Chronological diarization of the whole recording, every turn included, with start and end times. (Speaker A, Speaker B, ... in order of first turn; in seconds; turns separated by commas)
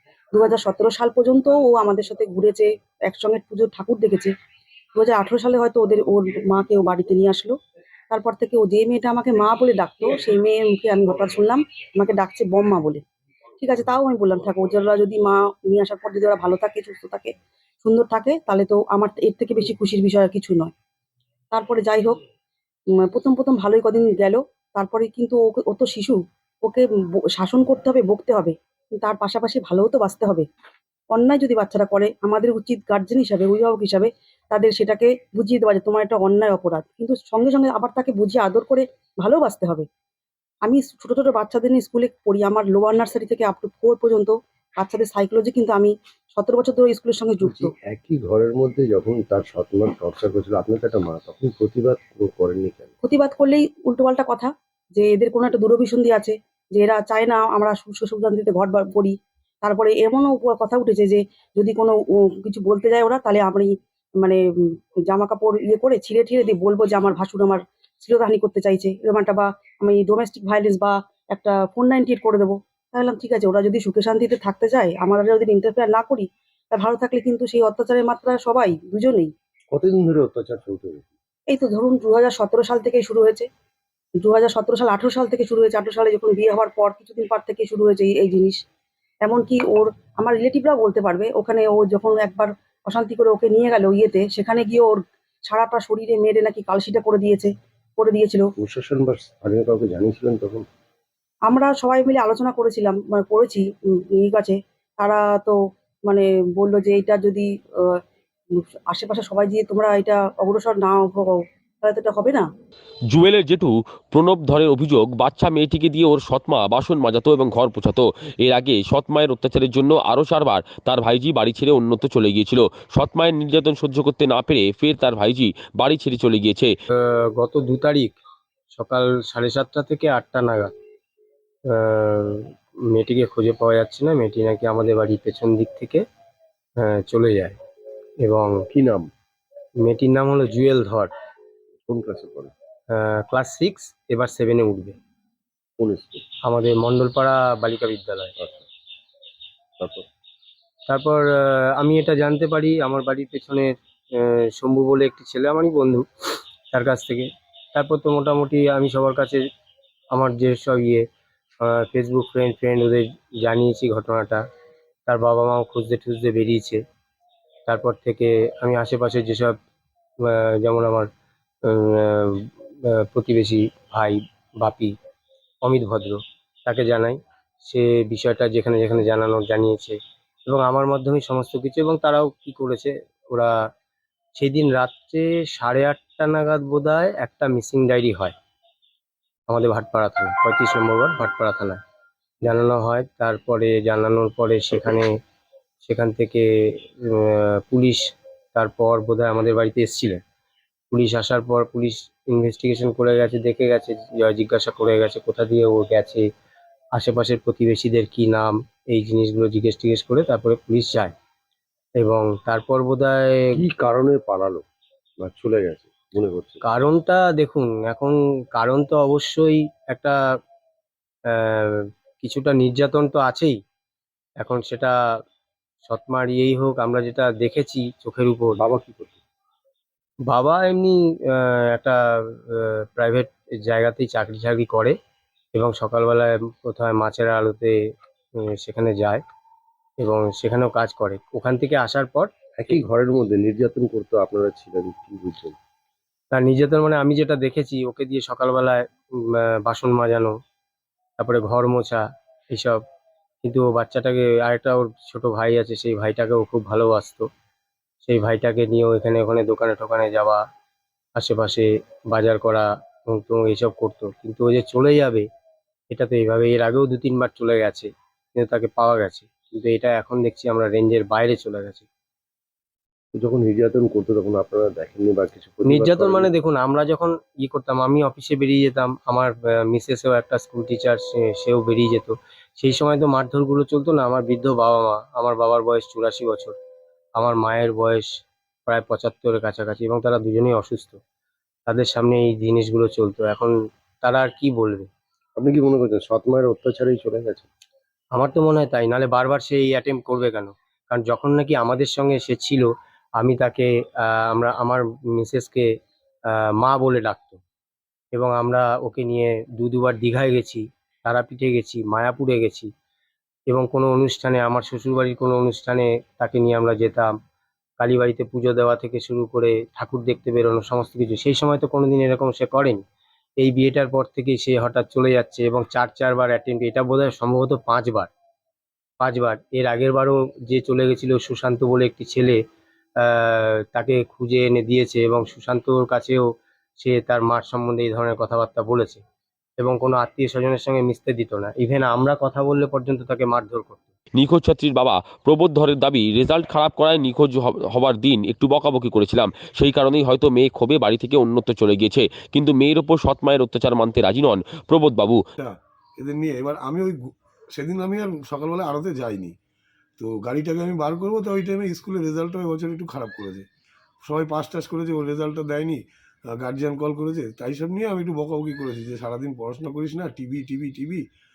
Speaker A: 0.3-4.3, Speaker A: 4.9-7.5, Speaker A: 8.1-13.0, Speaker A: 13.6-17.3, Speaker A: 17.8-20.7, Speaker A: 21.5-22.2, Speaker A: 23.0-26.8, Speaker A: 27.4-30.5, Speaker A: 31.1-39.9, Speaker A: 40.6-47.7, Speaker B: 47.4-52.9, Speaker A: 53.0-79.3, Speaker B: 79.7-81.1, Speaker A: 81.5-83.5, Speaker A: 84.2-88.6, Speaker A: 89.2-98.5, Speaker B: 98.6-100.6, Speaker A: 101.5-105.6, Speaker A: 106.1-108.0, Speaker A: 108.5-112.5, Speaker C: 113.1-126.7, Speaker D: 127.0-128.2, Speaker D: 128.7-130.7, Speaker D: 131.7-136.0, Speaker D: 136.8-137.6, Speaker D: 138.2-138.6, Speaker B: 138.7-139.1, Speaker D: 139.8-141.1, Speaker B: 141.8-142.5, Speaker D: 142.9-144.9, Speaker B: 145.8-146.2, Speaker D: 146.4-148.3, Speaker B: 148.4-148.6, Speaker B: 149.8-150.1, Speaker D: 150.9-156.1, Speaker D: 156.7-159.4, Speaker D: 160.1-161.1, Speaker D: 161.6-164.4, Speaker D: 165.1-166.8, Speaker D: 167.7-169.6, Speaker D: 170.2-171.1, Speaker D: 171.7-174.9, Speaker D: 175.6-183.5, Speaker D: 184.4-188.3, Speaker D: 189.5-191.8, Speaker D: 192.4-195.1, Speaker D: 195.8-200.2, Speaker D: 200.9-206.2, Speaker D: 206.9-211.1, Speaker D: 212.0-213.6, Speaker B: 213.5-214.7, Speaker B: 215.2-216.6, Speaker D: 216.6-220.2, Speaker D: 221.3-223.6, Speaker D: 224.4-225.0, Speaker D: 225.8-228.6, Speaker B: 228.5-229.2, Speaker D: 230.3-234.9, Speaker D: 235.5-237.8, Speaker D: 238.4-239.2, Speaker D: 240.0-242.3, Speaker B: 242.6-245.6, Speaker D: 246.3-250.3, Speaker D: 251.2-252.8, Speaker D: 253.4-257.3, Speaker D: 258.0-260.4, Speaker D: 261.1-265.3, Speaker D: 265.9-271.9, Speaker B: 273.1-276.3, Speaker D: 275.6-286.5, Speaker D: 287.2-288.1, Speaker D: 288.6-291.0, Speaker D: 291.6-294.9, Speaker B: 295.4-297.5, Speaker D: 298.1-305.7, Speaker D: 306.3-307.4, Speaker D: 308.1-312.7, Speaker D: 313.5-317.1, Speaker D: 317.8-322.8, Speaker D: 323.4-328.1, Speaker D: 329.0-332.4, Speaker D: 333.0-339.0, Speaker D: 339.6-343.8, Speaker C: 344.1-355.2, Speaker E: 355.4-356.9, Speaker E: 357.6-359.3, Speaker E: 360.0-363.4, Speaker E: 364.0-365.8, Speaker E: 366.4-371.0